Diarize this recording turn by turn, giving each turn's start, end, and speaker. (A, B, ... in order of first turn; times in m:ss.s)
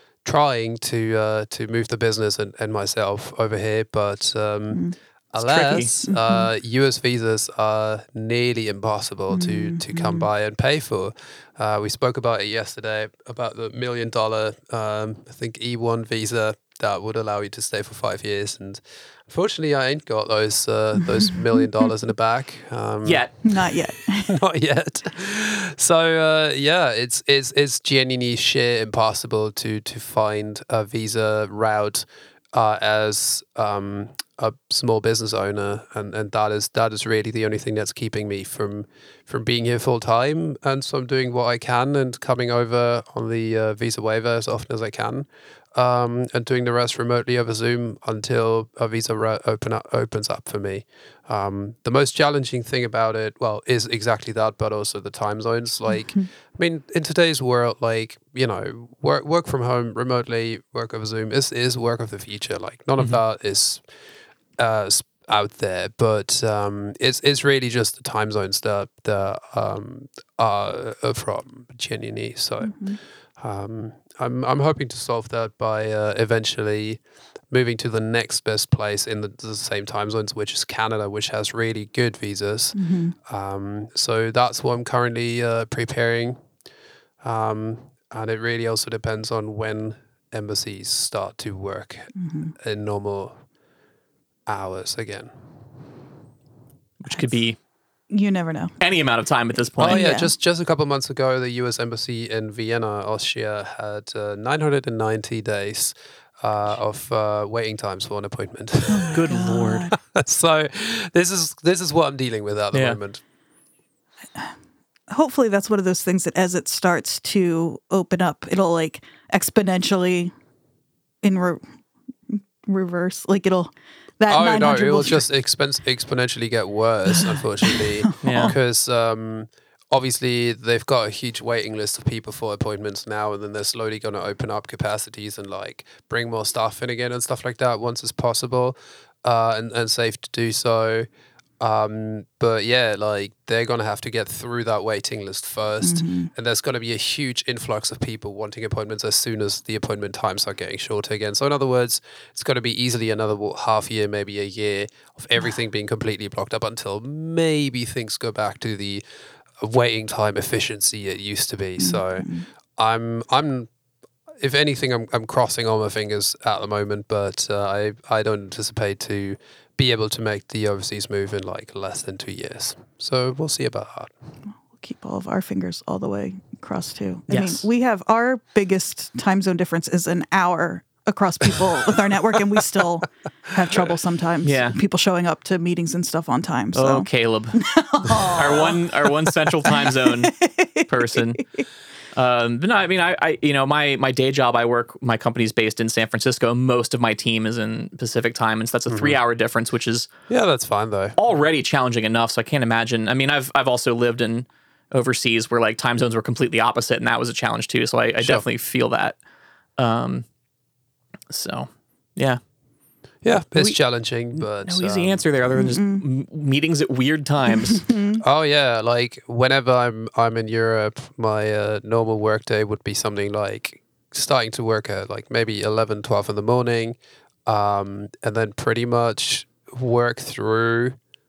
0:00.2-0:23.2 A
0:05.4-0:05.9 B
0:06.1-0:06.5 C
0:09.3-0:10.3 C
0:23.0-0:23.3 B
0:23.4-0:24.4 C
0:24.3-1:03.8 A
1:04.6-1:26.4 A
1:12.6-1:13.0 C
1:22.7-1:23.1 C
1:27.2-1:33.4 A
1:32.1-1:32.5 C
1:34.4-1:35.3 A
1:37.0-1:37.6 B
1:38.1-1:38.7 C
1:38.8-1:40.0 B
1:39.8-1:53.2 A
1:39.8-1:40.3 C
1:48.9-1:49.9 C
1:49.1-1:49.8 B
1:52.7-1:53.0 B
1:55.1-2:00.3 C
2:01.2-2:01.6 C
2:02.3-2:05.2 C
2:04.3-2:21.1 A
2:07.2-2:08.5 C
2:08.2-2:08.6 B
2:21.6-2:39.0 A
2:25.8-2:26.3 C
2:39.6-2:43.7 A
2:41.8-2:42.5 C
2:44.4-2:54.1 A
2:54.5-3:08.8 C
2:57.3-2:57.6 B
3:04.4-3:04.8 B
3:06.7-3:07.6 B
3:08.4-3:11.5 B
3:09.7-3:11.4 C
3:12.1-3:20.1 B
3:18.9-3:19.2 A
3:20.3-3:21.2 A
3:21.2-3:29.2 B
3:28.2-3:28.4 A
3:29.8-3:30.2 B
3:31.3-3:32.4 B
3:33.2-3:35.4 A
3:33.3-3:37.8 B
3:35.5-3:36.0 C
3:37.7-3:38.2 C
3:38.2-3:51.0 A